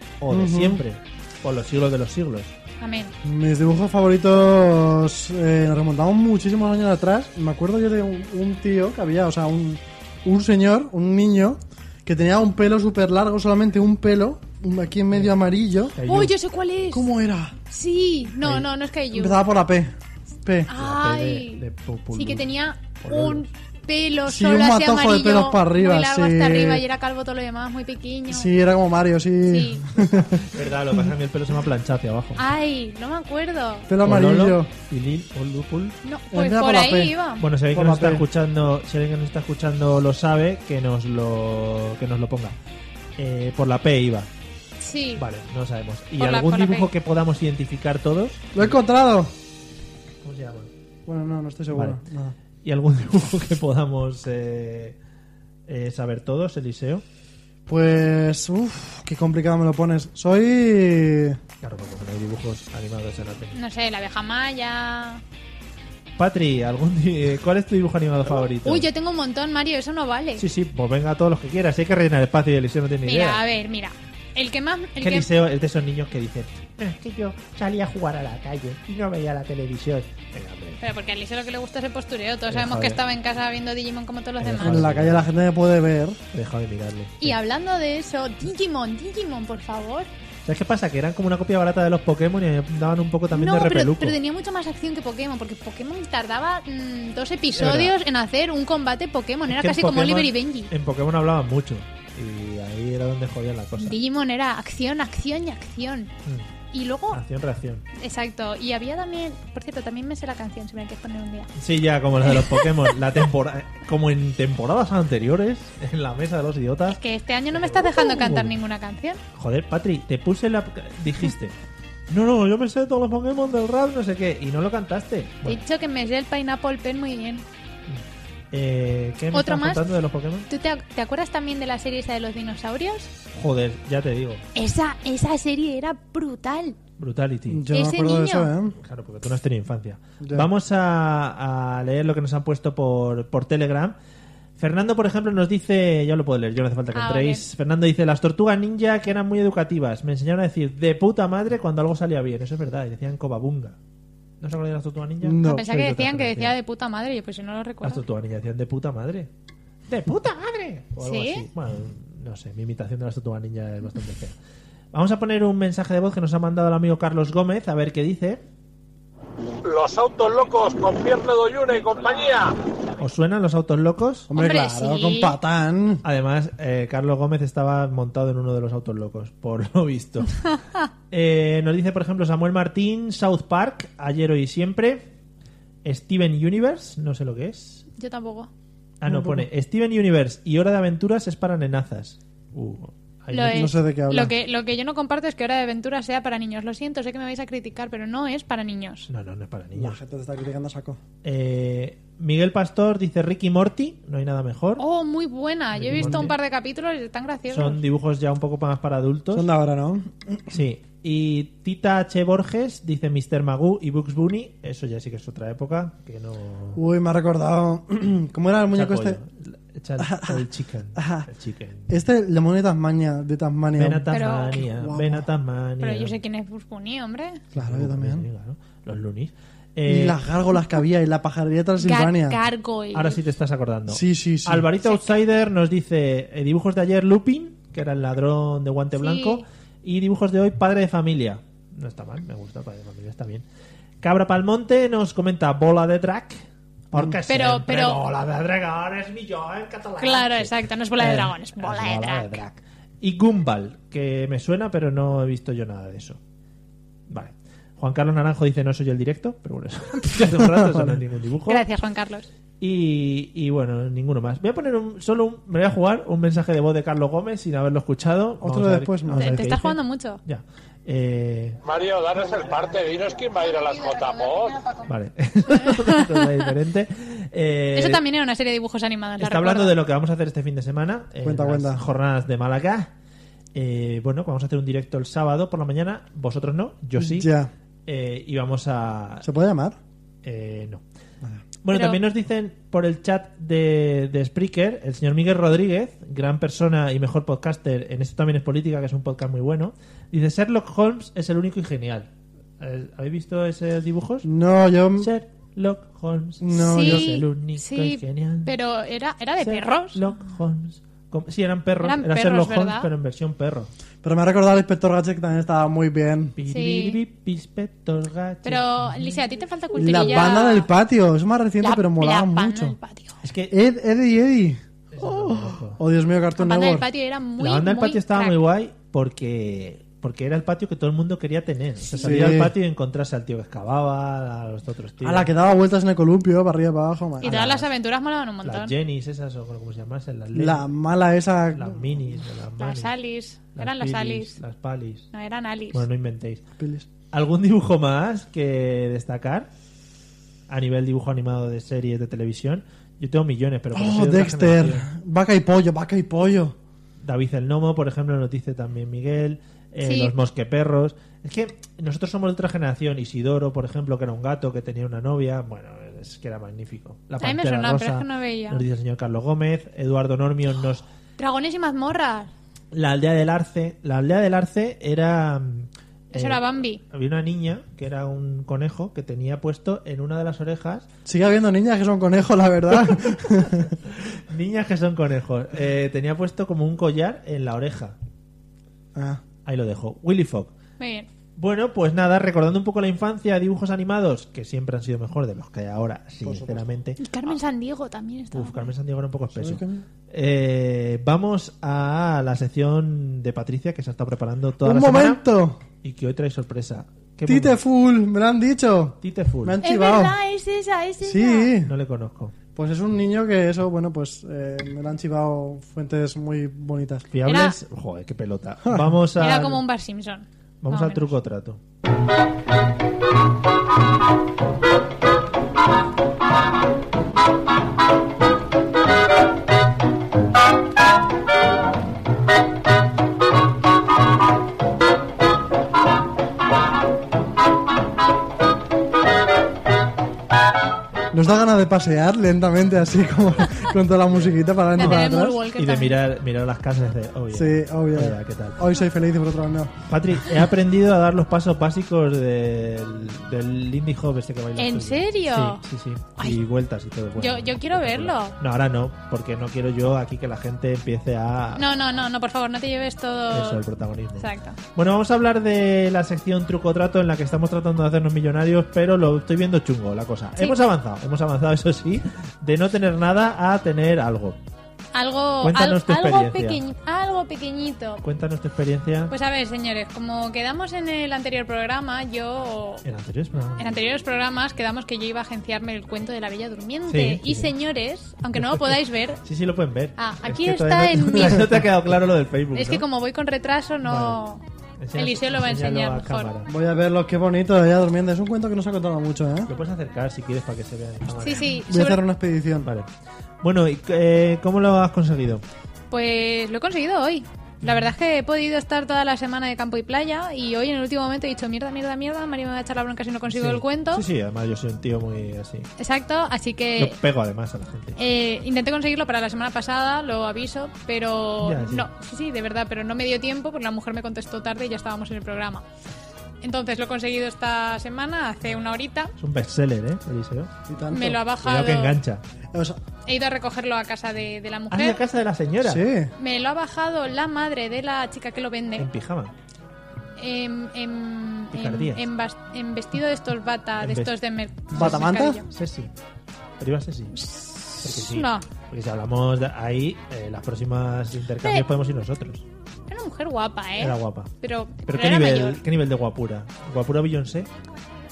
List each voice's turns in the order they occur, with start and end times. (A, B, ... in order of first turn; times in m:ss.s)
0:00.2-0:02.5 A
0:00.3-0:00.8 B
0:02.8-0:03.1 C
0:03.2-0:16.0 B
0:15.9-0:16.3 A
0:16.0-0:17.1 C
0:16.9-0:17.6 B
0:17.7-0:19.4 C
0:19.1-0:20.7 B
0:20.7-0:28.5 C
0:20.8-0:22.5 A
0:23.0-0:23.4 A
0:24.2-0:26.8 B
0:28.3-0:30.4 B
0:29.4-0:29.8 C
0:30.0-0:32.4 A
0:32.4-0:33.9 C
0:33.9-0:34.7 B
0:34.0-0:36.0 A
0:36.0-0:37.4 C
0:36.3-0:37.1 B
0:37.4-0:42.5 A
0:37.7-0:38.2 B
0:43.2-0:44.3 A
0:44.8-0:45.2 C
0:45.2-0:48.8 A
0:46.2-0:46.9 C
0:48.5-0:49.3 B
0:50.2-0:50.7 A
0:51.0-0:52.3 B
0:51.7-0:52.0 A
0:52.6-0:55.0 A
0:55.7-0:57.0 A
0:57.7-1:01.4 B
1:01.6-1:03.6 A
1:03.5-1:05.2 C
1:06.2-1:08.8 A
1:08.2-1:10.4 C
1:10.4-1:13.4 A
1:13.0-1:15.3 C
1:15.0-1:20.8 A
1:20.8-1:24.8 C
1:22.5-1:23.0 A
1:24.4-1:25.3 A
1:24.6-1:26.2 B
1:26.3-1:27.4 A
1:27.2-1:30.1 C
1:30.4-1:34.2 A
1:33.3-1:40.7 C
1:37.5-1:37.9 A
1:39.5-1:44.0 A
1:43.8-1:46.1 C
1:46.7-1:47.2 C
1:47.1-1:47.8 A
1:48.0-1:51.5 C
1:51.6-1:57.0 A
1:52.2-1:52.9 C
1:56.9-1:59.2 C
1:57.5-1:58.6 A
1:59.3-2:01.5 A
2:02.1-2:05.6 A
2:05.4-2:07.4 C
2:07.9-2:10.5 A
2:09.3-2:09.8 C
2:10.5-2:13.1 C
2:13.3-2:14.4 A
2:14.6-2:16.8 C
2:17.0-2:17.6 A
2:17.5-2:18.8 B
2:17.7-2:18.5 C
2:18.8-2:23.9 A
2:20.2-2:20.5 B
2:24.6-2:33.8 A
2:26.9-2:27.4 C
2:34.4-2:36.5 A
2:35.2-2:35.7 B
2:35.4-2:38.0 C
2:37.8-2:39.3 A
2:39.9-2:44.3 A
2:41.0-2:41.4 C
2:44.9-2:48.4 A
2:49.6-2:52.6 D
2:53.0-2:54.3 A
2:54.3-2:56.0 B
2:54.3-2:55.4 C
2:56.0-3:00.4 A
3:01.1-3:05.0 A
3:05.8-3:07.8 A
3:08.0-3:08.5 C
3:09.0-3:13.7 A
3:09.0-3:09.4 B
3:13.3-3:19.1 C
3:13.5-3:14.3 B
3:19.1-3:20.0 A
3:19.7-3:21.0 B
3:21.2-3:24.8 A
3:24.8-3:27.8 C
3:25.7-3:26.4 A
3:26.0-3:26.2 B
3:27.5-3:29.5 A
3:29.3-3:30.5 B
3:30.5-3:36.8 A
3:36.7-3:39.2 B
3:38.7-3:41.9 A
3:40.0-3:40.4 B
3:41.0-3:41.3 B
3:41.9-3:45.3 B
3:43.8-3:46.2 A
3:44.1-3:44.6 C
3:45.8-3:47.4 C
3:47.5-3:48.2 B
3:47.5-3:50.2 A
3:49.8-3:52.4 B
3:51.8-3:53.2 C
3:52.9-4:03.4 A
3:53.9-3:54.7 B
3:54.8-3:55.2 C
3:58.9-3:59.4 C
4:04.0-4:06.4 A
4:06.9-4:16.2 A
4:06.9-4:07.2 B
4:07.3-4:08.0 C
4:10.0-4:12.4 C
4:17.1-4:21.6 A
4:20.2-4:21.0 B
4:21.5-4:22.3 C
4:22.6-4:31.6 A
4:28.4-4:29.4 B
4:29.2-4:30.2 C
4:31.6-4:34.6 D
4:34.8-4:38.0 A
4:35.5-4:36.3 C
4:37.7-4:39.7 C
4:39.2-4:42.9 A
4:41.2-4:41.8 B
4:43.5-4:47.3 A
4:47.0-4:47.5 B
4:47.8-4:49.2 A
4:49.2-4:49.8 B
4:50.2-4:50.8 A
4:51.6-5:02.1 A
4:51.7-4:52.0 C
5:02.6-5:04.3 A
5:04.2-5:05.1 B
5:05.0-5:08.5 A
5:06.4-5:07.1 B
5:06.5-5:10.0 C
5:09.4-5:13.7 A
5:11.8-5:12.9 C
5:14.0-5:16.4 B
5:16.4-5:19.2 A
5:16.5-5:17.0 C
5:18.4-5:20.7 C
5:19.8-5:22.8 B
5:21.6-5:23.2 C
5:23.2-5:23.5 A
5:23.5-5:26.9 B
5:24.9-5:25.8 A
5:26.4-5:28.4 C
5:27.4-5:35.3 A
5:31.8-5:32.1 C
5:32.0-5:32.5 B
5:35.0-5:37.4 B
5:37.2-5:38.7 C
5:37.2-5:37.6 A
5:38.4-5:40.6 A
5:40.3-5:42.0 B
5:41.5-5:42.9 A
5:42.6-5:44.4 C
5:43.5-5:45.1 A
5:45.1-5:45.8 C
5:45.7-5:46.4 A
5:46.6-5:46.9 B
5:47.1-5:49.5 A
5:50.5-5:54.8 A
5:53.7-5:56.6 B
5:57.0-6:10.8 A
5:59.8-6:00.1 C
6:07.2-6:08.6 C
6:11.2-6:12.3 C
6:12.7-6:20.8 A
6:16.1-6:16.8 C
6:21.0-6:23.7 B
6:23.6-6:28.0 A
6:28.9-6:29.2 B
6:29.4-6:30.5 A
6:30.8-6:31.1 C
6:31.4-6:37.1 A
6:36.2-6:36.7 B
6:37.0-6:38.7 C
6:38.3-6:45.2 A
6:39.3-6:39.8 B
6:44.6-6:45.6 B
6:45.8-6:47.6 A
6:47.2-6:50.2 B
6:49.0-6:49.6 A
6:49.6-6:51.5 C
6:51.0-6:51.7 B
6:51.6-6:52.3 A
6:52.6-6:57.0 B
6:57.1-6:59.6 A
6:57.2-6:57.6 C
6:59.2-7:01.2 C
7:00.6-7:01.6 A
7:21.1-7:25.4 B
7:24.1-7:28.6 A
7:24.8-7:26.0 C
7:27.3-7:29.7 B
7:29.9-7:41.6 A
7:34.6-7:35.6 C
7:37.2-7:38.4 C
7:41.6-7:43.6 C
7:43.3-7:54.4 A
7:44.2-7:44.6 C
7:54.9-7:58.0 C
7:55.4-7:56.6 A
7:58.0-7:59.1 A
7:59.1-8:02.8 C
8:02.8-8:03.8 A
8:03.6-8:09.2 C
8:06.9-8:07.5 A
8:08.4-8:12.8 A
8:10.0-8:11.6 C
8:12.5-8:14.4 C
8:13.8-8:14.2 A
8:14.8-8:16.5 A
8:14.9-8:16.3 C
8:16.4-8:19.5 B
8:19.5-8:21.6 A
8:21.2-8:22.0 C
8:21.7-8:22.7 B
8:23.4-8:25.4 A
8:25.9-8:34.0 C
8:27.6-8:27.9 A
8:33.3-8:35.7 A
8:35.8-8:37.0 C
8:36.8-8:38.0 A
8:38.0-8:45.6 C
8:41.4-8:41.9 A
8:46.4-8:49.1 C
8:49.2-8:50.5 A
8:50.7-8:51.2 B
8:50.9-8:52.0 C
8:51.2-8:52.2 A
8:52.5-8:52.8 B
8:53.0-8:55.0 C
8:54.7-8:55.8 A
8:55.6-8:56.1 B
8:56.2-8:58.9 C
8:58.8-8:59.3 A
9:00.2-9:05.5 C
9:01.5-9:02.0 A
9:03.8-9:04.1 A
9:04.7-9:05.4 B
9:04.7-9:05.9 A
9:06.6-9:07.2 A
9:07.1-9:08.4 C
9:07.8-9:12.4 A
9:12.9-9:15.6 C
9:13.8-9:14.3 A
9:14.8-9:17.5 A